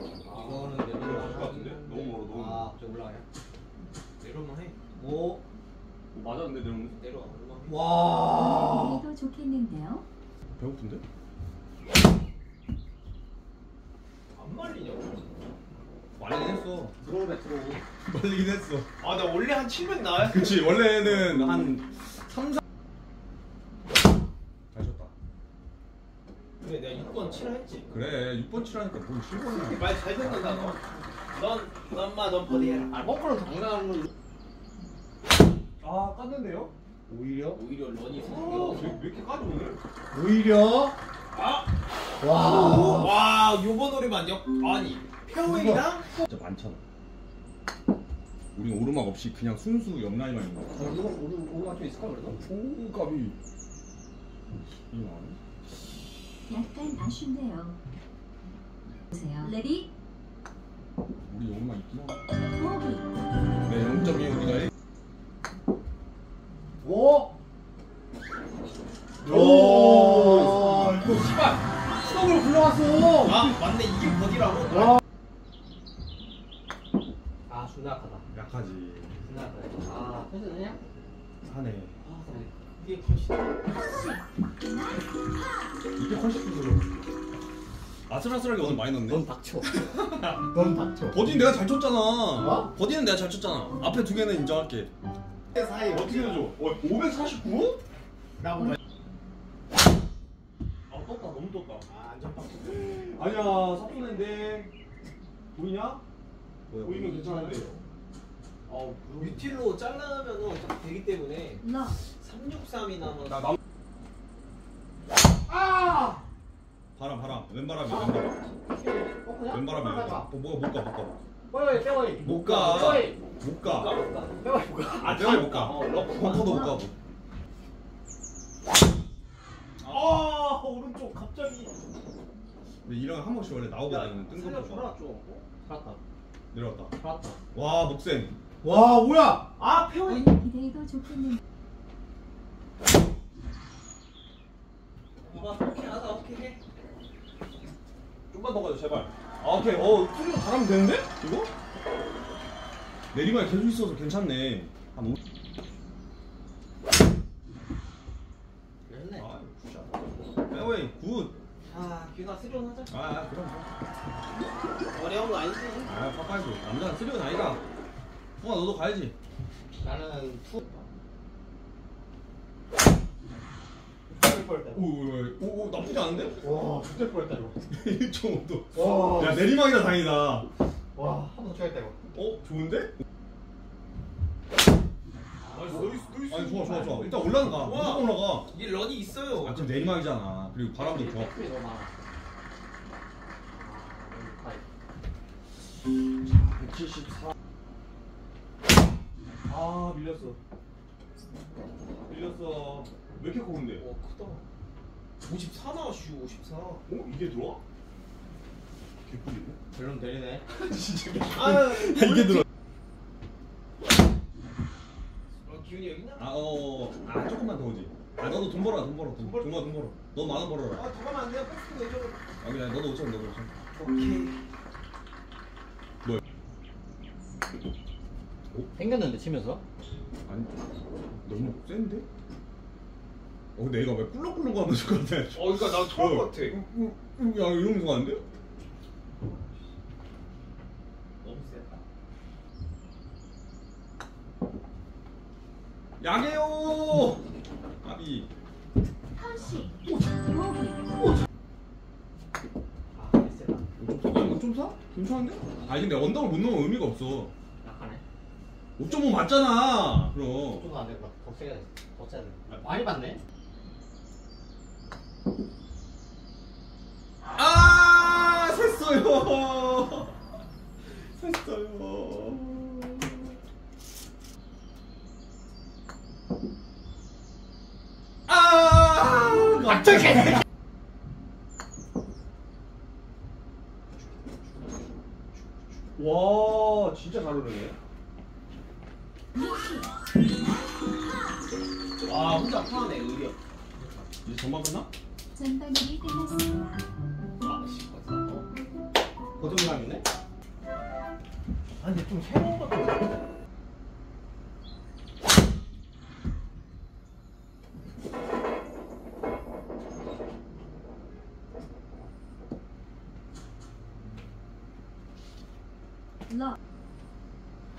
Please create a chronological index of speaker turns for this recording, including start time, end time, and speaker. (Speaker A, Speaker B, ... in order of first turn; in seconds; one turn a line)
Speaker A: 0.2-3.2
Speaker B: 0.9-2.7
Speaker C: 4.2-4.8
Speaker A: 5.0-5.4
Speaker B: 6.1-7.0
Speaker C: 6.9-7.8
Speaker A: 7.7-9.0
Speaker D: 8.5-10.1
Speaker B: 10.6-11.0
Speaker C: 14.3-15.4
Speaker B: 16.2-16.9
Speaker A: 17.0-17.8
Speaker B: 18.1-18.9
Speaker C: 19.0-21.1
Speaker B: 20.2-22.6
Speaker B: 24.7-25.1
Speaker C: 26.6-27.9
Speaker B: 27.9-30.7
Speaker C: 29.4-33.0
Speaker A: 32.9-34.1
Speaker B: 35.8-36.7
Speaker A: 37.1-37.6
Speaker C: 37.5-38.9
Speaker B: 38.3-39.8
Speaker A: 40.1-41.0
Speaker C: 41.3-41.7
Speaker A: 42.2-43.2
Speaker C: 42.5-46.2
Speaker A: 45.4-45.8
Speaker B: 46.3-46.8
Speaker B: 48.5-50.8
Speaker A: 50.7-52.4
Speaker B: 52.4-53.4
Speaker B: 54.9-55.4
Speaker D: 56.5-57.8
Speaker D: 59.1-59.9
Speaker B: 61.3-62.2
Speaker D: 62.5-63.1
Speaker B: 63.6-64.7
Speaker A: 66.8-67.3
Speaker B: 69.2-71.4
Speaker A: 72.0-73.4
Speaker C: 73.2-75.0
Speaker A: 77.5-78.2
Speaker B: 78.3-79.2
Speaker A: 79.2-80.8
Speaker B: 81.4-82.0
Speaker C: 82.0-82.5
Speaker A: 82.2-83.5
Speaker D: 83.7-85.0
Speaker B: 86.0-87.1
Speaker B: 88.1-90.5
Speaker A: 88.6-89.7
Speaker A: 90.4-91.2
Speaker B: 91.1-94.9
Speaker A: 92.4-92.7
Speaker A: 95.6-95.9
Speaker B: 95.8-97.8
Speaker B: 100.9-101.9
Speaker C: 101.9-102.9
Speaker B: 102.6-104.7
Speaker B: 105.5-106.0
Speaker B: 106.7-107.8
Speaker A: 106.8-107.6
Speaker B: 108.7-109.5
Speaker C: 109.2-113.5
Speaker D: 111.6-112.0
Speaker A: 115.5-116.2
Speaker B: 117.0-118.4
Speaker A: 117.9-120.3
Speaker B: 119.5-121.2
Speaker A: 121.5-123.2
Speaker B: 122.2-124.0
Speaker C: 122.5-124.3
Speaker A: 124.4-125.3
Speaker B: 125.0-127.0
Speaker C: 125.0-126.7
Speaker C: 129.8-131.8
Speaker B: 132.8-135.0
Speaker C: 133.9-135.5
Speaker A: 135.6-136.0
Speaker B: 136.5-136.9
Speaker A: 137.0-137.4
Speaker B: 137.5-138.3
Speaker A: 138.6-139.5
Speaker C: 139.6-140.3
Speaker D: 140.1-141.4
Speaker C: 145.2-146.6
Speaker B: 148.3-151.5
Speaker B: 153.1-155.2
Speaker A: 158.9-159.3
Speaker B: 159.2-159.9
Speaker B: 160.5-161.4
Speaker C: 161.7-163.0
Speaker B: 162.9-163.7
Speaker C: 164.9-165.9
Speaker B: 165.8-167.6
Speaker B: 168.4-169.2
Speaker A: 169.8-170.6
Speaker C: 170.6-170.9
Speaker A: 174.1-174.9
Speaker B: 174.7-176.5
Speaker A: 176.4-177.6
Speaker B: 177.7-180.5
Speaker A: 178.7-179.4
Speaker A: 180.9-182.0
Speaker B: 182.1-182.9
Speaker A: 185.4-187.2
Speaker C: 185.5-189.8
Speaker B: 185.7-188.5
Speaker B: 189.4-191.3
Speaker A: 190.8-191.9
Speaker A: 193.5-194.7
Speaker B: 196.2-197.3
Speaker B: 199.5-200.4
Speaker B: 202.1-203.9
Speaker C: 203.8-204.4
Speaker C: 205.3-206.9
Speaker B: 206.9-207.6
Speaker B: 209.0-209.6
Speaker A: 209.7-210.5
Speaker B: 210.6-212.4
Speaker C: 211.3-212.3
Speaker C: 215.4-216.4
Speaker B: 216.2-220.9
Speaker C: 219.1-222.2
Speaker B: 222.4-223.5
Speaker C: 223.7-224.4
Speaker A: 228.7-229.6
Speaker B: 230.3-230.6
Speaker B: 231.2-232.1
Speaker B: 233.6-238.2
Speaker C: 235.3-236.6
Speaker C: 239.2-239.6
Speaker C: 241.2-241.8
Speaker B: 246.0-247.2
Speaker B: 247.8-248.3
Speaker D: 249.2-250.8
Speaker A: 252.9-253.7
Speaker B: 253.8-257.3
Speaker A: 257.6-258.0
Speaker B: 258.8-260.7
Speaker A: 260.5-263.2
Speaker B: 267.3-270.2
Speaker B: 270.9-273.1
Speaker B: 278.3-280.4
Speaker B: 286.0-287.8
Speaker D: 289.4-289.9
Speaker C: 292.0-293.4
Speaker B: 294.2-294.9
Speaker D: 295.3-296.9
Speaker C: 297.4-298.4
Speaker A: 299.4-300.1
Speaker C: 299.4-299.8
Speaker C: 301.8-303.2